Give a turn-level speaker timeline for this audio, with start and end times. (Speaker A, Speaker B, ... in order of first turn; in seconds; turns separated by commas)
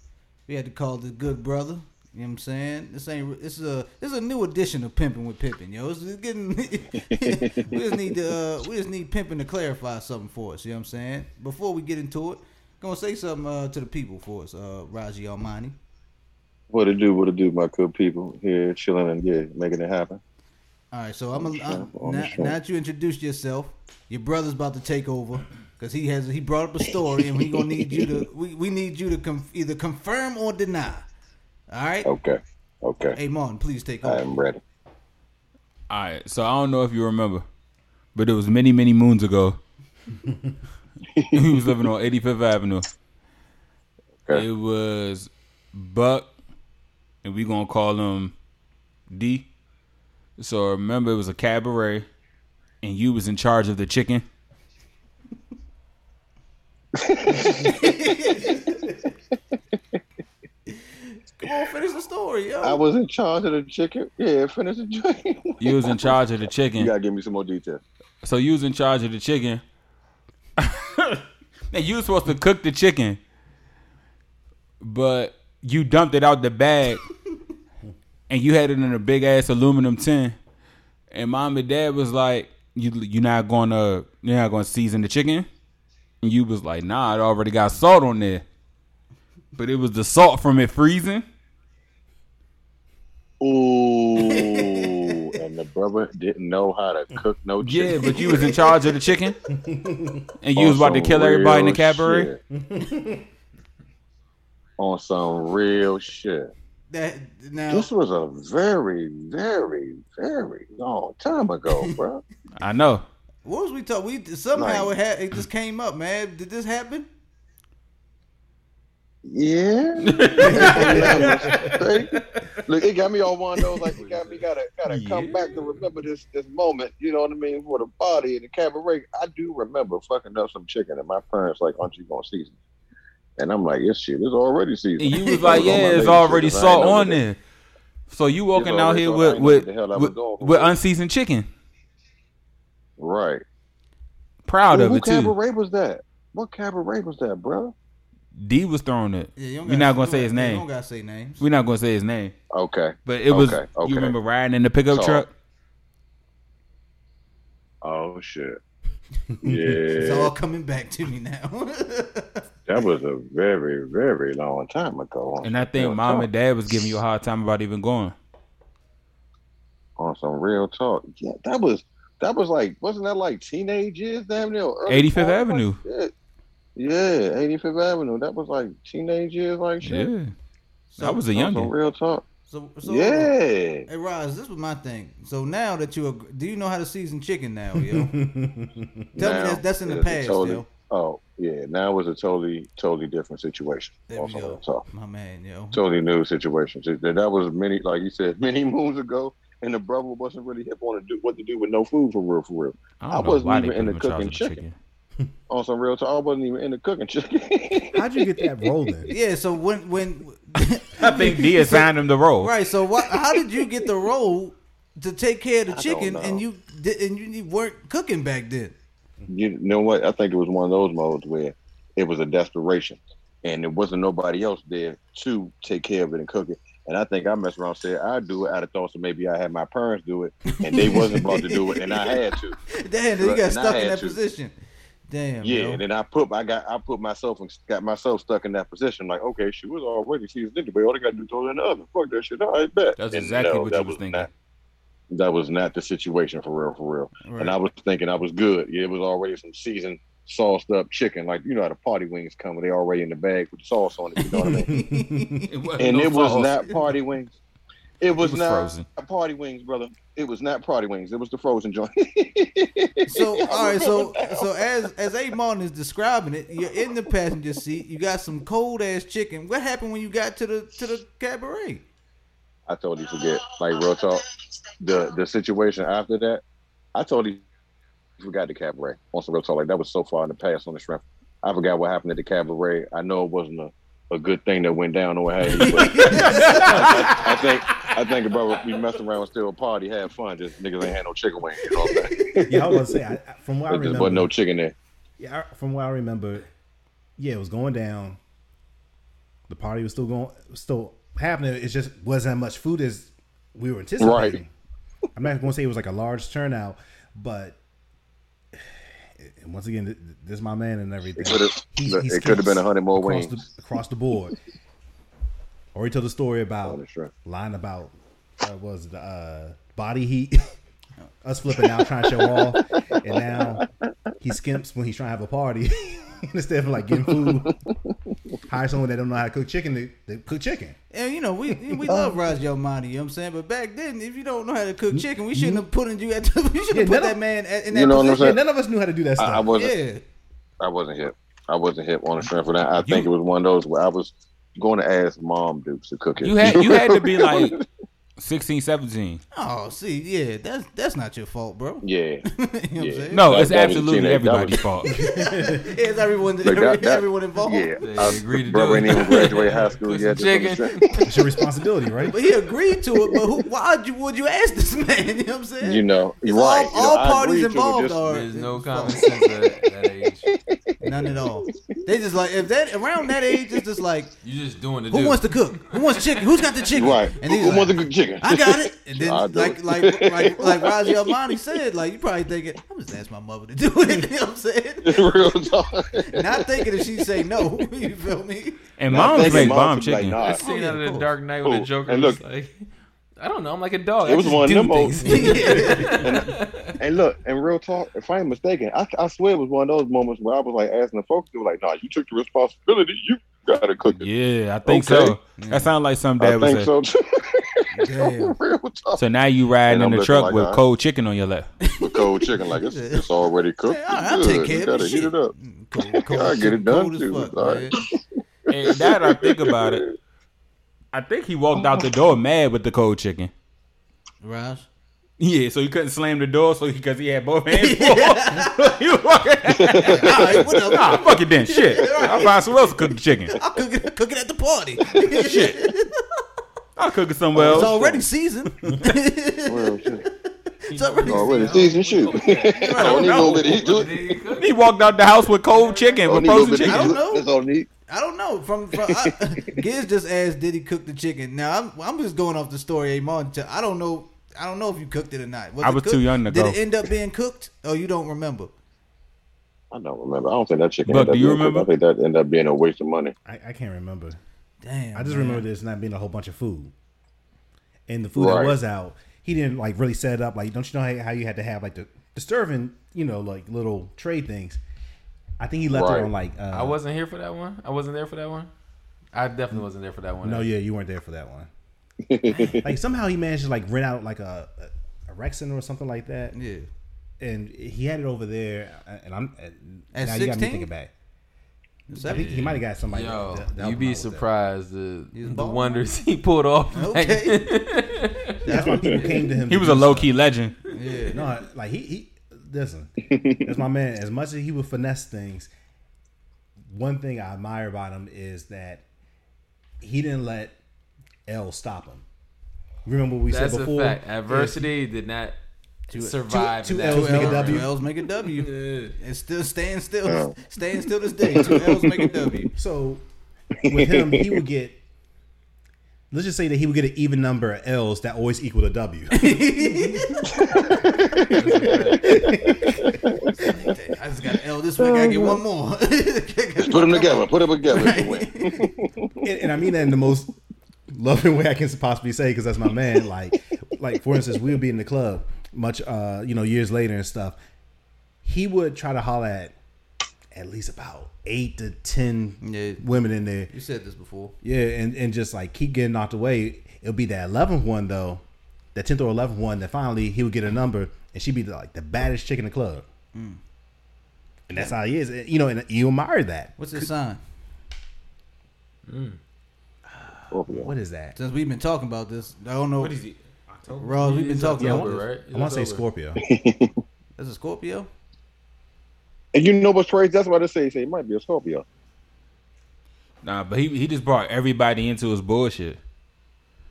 Speaker A: 0.5-15.8, Speaker B: 7.2-7.7, Speaker B: 16.7-20.2, Speaker A: 20.9-31.1, Speaker B: 21.4-22.5, Speaker A: 31.7-32.1, Speaker B: 32.0-33.2, Speaker A: 33.1-34.3, Speaker B: 34.0-34.6, Speaker C: 35.9-37.5, Speaker C: 38.1-39.6, Speaker B: 41.1-41.7, Speaker C: 41.3-42.9, Speaker C: 44.3-46.3, Speaker C: 47.2-48.3, Speaker C: 49.1-49.5, Speaker C: 50.4-52.0, Speaker C: 52.8-54.2, Speaker B: 57.0-58.6, Speaker A: 57.3-59.0, Speaker A: 60.7-62.8, Speaker B: 62.6-66.2, Speaker C: 65.6-66.9, Speaker B: 66.8-67.8, Speaker C: 68.2-69.6, Speaker C: 70.6-73.2, Speaker C: 74.8-77.1, Speaker C: 78.3-80.4, Speaker C: 81.1-85.5, Speaker C: 86.2-88.4, Speaker C: 89.6-91.2, Speaker B: 93.4-98.5, Speaker A: 94.2-95.3, Speaker C: 97.6-99.4, Speaker A: 98.0-99.0, Speaker D: 99.5-100.3, Speaker C: 100.4-102.3, Speaker B: 100.6-102.4, Speaker D: 102.5-103.2, Speaker B: 104.8-106.5, Speaker A: 106.9-107.9, Speaker B: 107.7-112.2, Speaker C: 112.6-113.0, Speaker A: 113.5-117.1, Speaker B: 114.5-114.9, Speaker B: 119.2-122.1, Speaker C: 120.0-122.2, Speaker D: 120.4-121.7, Speaker A: 120.5-121.4, Speaker B: 122.7-132.6, Speaker E: 123.9-124.5, Speaker C: 124.9-125.8, Speaker B: 133.4-137.2, Speaker C: 135.0-137.4, Speaker A: 135.1-135.5, Speaker C: 138.1-141.5, Speaker B: 138.6-140.7, Speaker B: 143.0-143.4, Speaker C: 144.5-145.3, Speaker B: 144.7-147.7, Speaker C: 148.4-150.7, Speaker A: 149.4-151.4, Speaker C: 151.4-152.3, Speaker B: 152.5-154.2, Speaker C: 153.1-155.3, Speaker B: 154.9-155.3, Speaker B: 157.8-158.6, Speaker D: 159.4-159.8, Speaker B: 159.4-160.3, Speaker A: 159.9-162.5, Speaker B: 162.7-166.3, Speaker C: 165.4-168.2, Speaker B: 170.0-176.1, Speaker C: 174.9-175.8, Speaker B: 176.8-180.1, Speaker C: 179.8-180.3, Speaker A: 180.9-181.2, Speaker C: 181.0-181.7, Speaker B: 181.3-182.2, Speaker A: 182.5-183.3, Speaker B: 182.8-183.9, Speaker A: 183.9-188.1, Speaker D: 187.7-189.1, Speaker B: 189.2-194.8, Speaker A: 189.2-190.7, Speaker A: 194.1-195.8, Speaker B: 195.7-204.6, Speaker C: 203.0-204.8, Speaker B: 205.5-208.0, Speaker D: 207.9-209.1, Speaker A: 209.1-218.8, Speaker C: 211.0-212.5, Speaker B: 215.7-216.4, Speaker B: 219.3-232.6, Speaker A: 230.5-234.6, Speaker B: 233.2-234.2, Speaker A: 235.1-235.8, Speaker B: 235.4-244.3, Speaker C: 243.0-244.3, Speaker B: 245.1-254.7, Speaker A: 247.2-247.6, Speaker A: 254.2-255.6, Speaker D: 254.4-255.4, Speaker C: 255.5-256.7, Speaker B: 255.8-257.3, Speaker B: 258.0-264.9, Speaker C: 258.1-258.9, Speaker A: 263.1-271.9, Speaker B: 272.7-274.2, Speaker B: 274.8-276.4, Speaker B: 276.9-277.5, Speaker B: 278.2-292.8, Speaker A: 285.5-286.9, Speaker C: 285.6-288.1, Speaker A: 291.6-292.8, Speaker D: 292.5-294.3, Speaker B: 293.7-294.8, Speaker D: 295.2-296.5, Speaker D: 297.2-298.2, Speaker D: 299.5-304.5, Speaker B: 304.0-304.4, Speaker D: 305.2-307.6, Speaker D: 308.6-314.4, Speaker B: 311.2-313.4, Speaker D: 315.8-320.5, Speaker B: 316.6-317.1, Speaker D: 321.2-323.6, Speaker B: 323.4-323.6, Speaker D: 324.2-327.6, Speaker B: 327.1-327.6, Speaker D: 328.5-330.8, Speaker A: 330.9-338.3, Speaker B: 331.8-332.2, Speaker D: 334.9-335.6, Speaker D: 336.7-337.2, Speaker B: 337.7-338.4, Speaker D: 338.0-339.5, Speaker B: 339.2-339.8, Speaker A: 339.5-340.0, Speaker B: 340.6-347.6, Speaker C: 342.8-343.1, Speaker C: 346.2-347.6, Speaker C: 348.2-349.2, Speaker A: 349.3-353.3, Speaker B: 351.8-352.2, Speaker B: 352.8-354.6, Speaker C: 353.1-354.9, Speaker A: 354.9-357.8, Speaker D: 354.9-355.7, Speaker B: 356.4-361.1, Speaker E: 357.8-361.2, Speaker D: 361.1-362.2, Speaker A: 362.1-369.1, Speaker B: 365.6-368.1, Speaker E: 368.1-370.3, Speaker B: 369.0-369.4, Speaker B: 370.2-371.8, Speaker A: 370.8-374.1, Speaker B: 373.0-373.6, Speaker E: 374.2-376.0, Speaker A: 374.9-385.3, Speaker B: 376.7-381.1, Speaker B: 384.8-386.6, Speaker A: 386.1-388.6, Speaker C: 388.8-390.2, Speaker B: 388.9-390.4, Speaker E: 390.2-392.6, Speaker A: 390.2-391.1, Speaker B: 391.4-392.2, Speaker E: 393.2-396.8, Speaker B: 394.0-404.1, Speaker A: 395.0-396.0, Speaker C: 403.9-406.7, Speaker B: 404.7-405.2, Speaker A: 405.4-405.7, Speaker B: 406.2-409.0, Speaker A: 407.7-408.4, Speaker C: 409.0-411.5, Speaker B: 409.7-410.6, Speaker A: 411.6-413.1, Speaker B: 411.8-415.3, Speaker A: 413.6-417.7, Speaker B: 415.9-419.9, Speaker C: 418.5-419.8, Speaker C: 420.9-423.3, Speaker B: 421.6-421.9, Speaker A: 424.2-424.7, Speaker C: 425.2-433.4, Speaker A: 427.5-428.8, Speaker B: 429.5-431.0, Speaker A: 429.8-432.8, Speaker A: 433.3-436.0, Speaker C: 435.1-435.6, Speaker C: 436.8-438.0, Speaker B: 437.4-437.8, Speaker A: 437.4-443.2, Speaker B: 439.5-440.1, Speaker E: 440.7-442.6, Speaker B: 441.1-444.2, Speaker C: 442.8-443.7, Speaker E: 443.1-444.7, Speaker C: 444.4-447.0, Speaker E: 445.5-446.4, Speaker B: 446.1-447.7, Speaker A: 446.6-447.3, Speaker A: 447.8-458.5, Speaker B: 448.8-449.5, Speaker C: 455.6-456.6, Speaker B: 459.7-463.1, Speaker C: 460.9-461.7, Speaker D: 463.2-464.2, Speaker A: 464.6-465.5, Speaker D: 464.9-466.7, Speaker D: 467.9-474.6, Speaker B: 468.2-468.6, Speaker D: 475.4-476.8, Speaker B: 475.7-476.1, Speaker E: 476.5-478.5, Speaker E: 479.1-480.5, Speaker D: 480.2-481.5, Speaker B: 482.0-482.7, Speaker D: 482.5-486.4, Speaker A: 486.3-486.7, Speaker D: 487.2-490.9, Speaker A: 489.9-490.7, Speaker A: 491.9-492.6, Speaker D: 492.0-494.3, Speaker E: 492.1-498.4, Speaker A: 495.1-495.9, Speaker A: 496.7-497.7, Speaker A: 498.4-499.3, Speaker D: 498.4-500.1, Speaker C: 499.5-500.6, Speaker A: 500.7-501.2, Speaker D: 501.1-502.9, Speaker B: 503.1-503.4, Speaker D: 503.4-505.5, Speaker D: 506.7-508.8, Speaker D: 509.8-510.6, Speaker D: 511.3-512.0, Speaker D: 512.9-514.7, Speaker E: 513.3-515.4, Speaker A: 515.9-522.5, Speaker E: 515.9-517.7, Speaker D: 516.3-517.7, Speaker E: 518.4-518.9, Speaker B: 520.1-520.4, Speaker B: 521.2-522.3, Speaker D: 522.5-523.0, Speaker B: 523.6-524.4, Speaker D: 523.6-524.8, Speaker D: 526.1-529.4, Speaker A: 529.1-530.8, Speaker B: 530.3-531.8, Speaker E: 531.3-532.2, Speaker D: 531.6-533.0, Speaker B: 532.5-533.3, Speaker A: 533.4-538.7, Speaker B: 534.8-535.4, Speaker B: 536.6-539.3, Speaker D: 539.2-540.3, Speaker D: 540.9-547.4, Speaker D: 548.2-549.5, Speaker D: 550.3-553.5, Speaker A: 552.4-552.8, Speaker A: 553.5-554.4, Speaker D: 554.4-558.2, Speaker D: 558.8-562.9, Speaker A: 563.1-563.4, Speaker D: 564.5-566.9, Speaker A: 566.6-567.2, Speaker E: 568.9-569.2, Speaker B: 570.3-570.7, Speaker D: 570.5-571.1, Speaker A: 571.1-573.0, Speaker C: 572.8-574.5, Speaker A: 573.8-575.0, Speaker E: 574.0-575.9, Speaker D: 574.6-576.2, Speaker B: 576.2-576.8, Speaker A: 577.2-577.9, Speaker B: 579.3-581.6, Speaker C: 583.2-585.8